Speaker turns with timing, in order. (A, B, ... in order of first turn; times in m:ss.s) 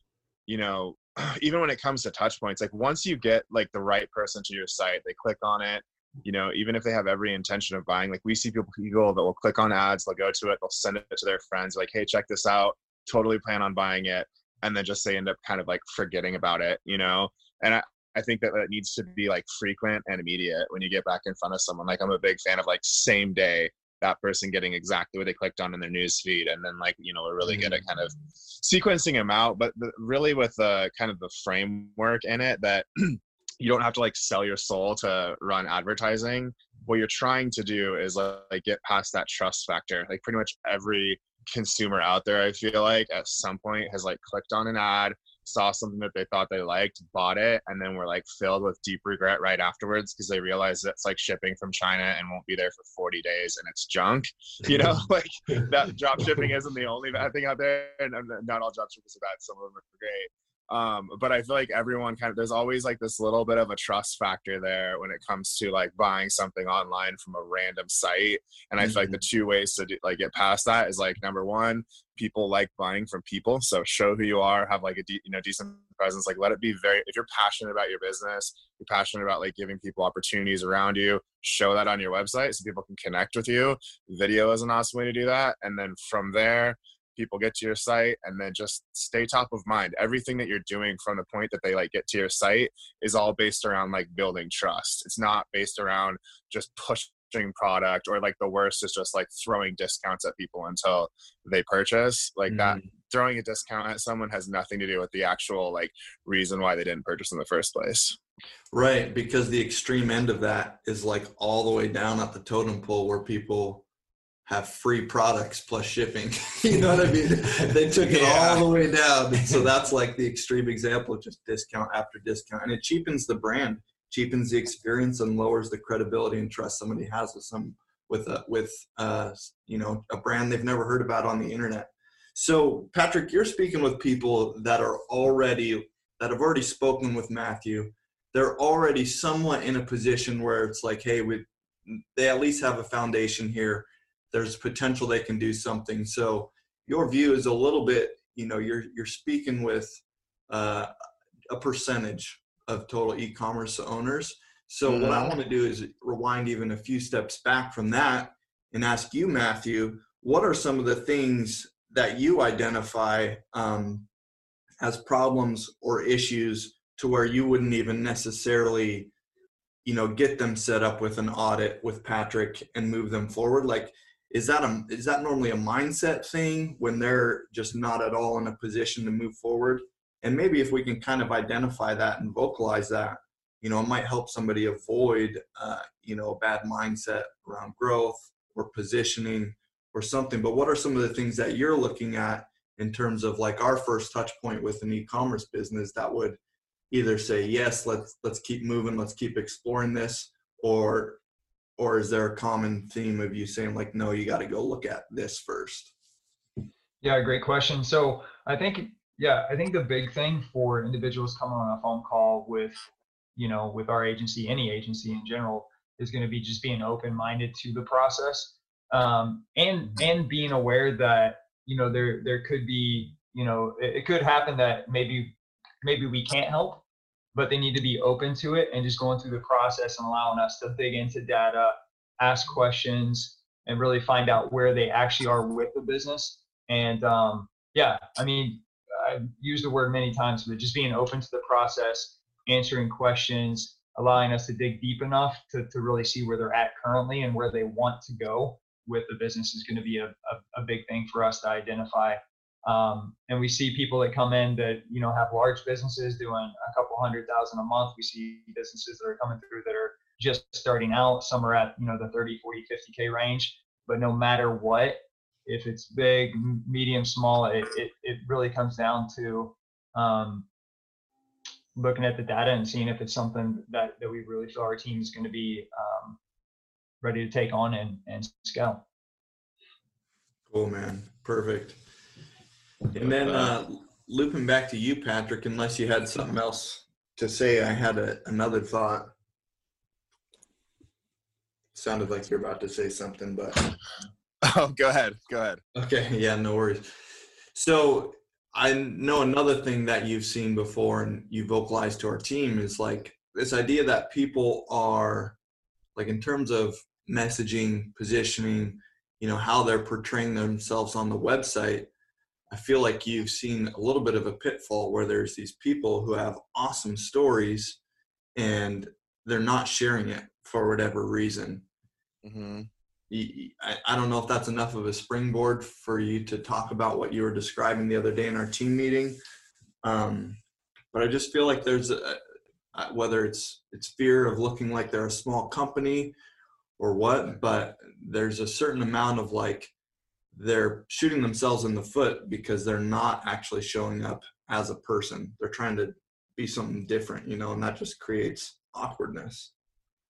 0:00.5-1:48.2 A
0:54.6-0:55.0 B
1:08.8-1:09.2 B
1:42.5-1:42.8 B
1:48.7-1:53.8 B
1:54.4-2:30.9 B
1:58.0-1:58.6 A
2:31.5-2:44.1 B
2:34.8-2:35.3 A
2:44.8-2:49.1 B
2:49.8-3:16.4 B
3:16.9-3:21.2 B
3:21.8-3:25.9 B
3:27.0-3:32.8 C
3:33.4-3:46.8 C
3:47.3-4:30.5 C
4:31.7-4:36.2 C
4:37.0-4:38.8 C
4:40.5-4:41.8 B
4:42.9-4:49.1 B
4:43.0-4:43.5 A
4:51.7-4:53.8 B
4:54.4-4:55.6 A
4:55.7-4:56.9 B
4:57.5-5:05.4 B
5:06.0-5:11.9 B
5:12.5-5:17.8 B
5:18.4-5:21.6 B
5:22.2-5:22.7 A
5:23.1-5:29.2 B
5:29.8-5:30.4 B
5:30.9-5:32.2 B
5:32.7-5:36.1 B
5:36.8-5:39.7 B
5:40.3-5:49.5 B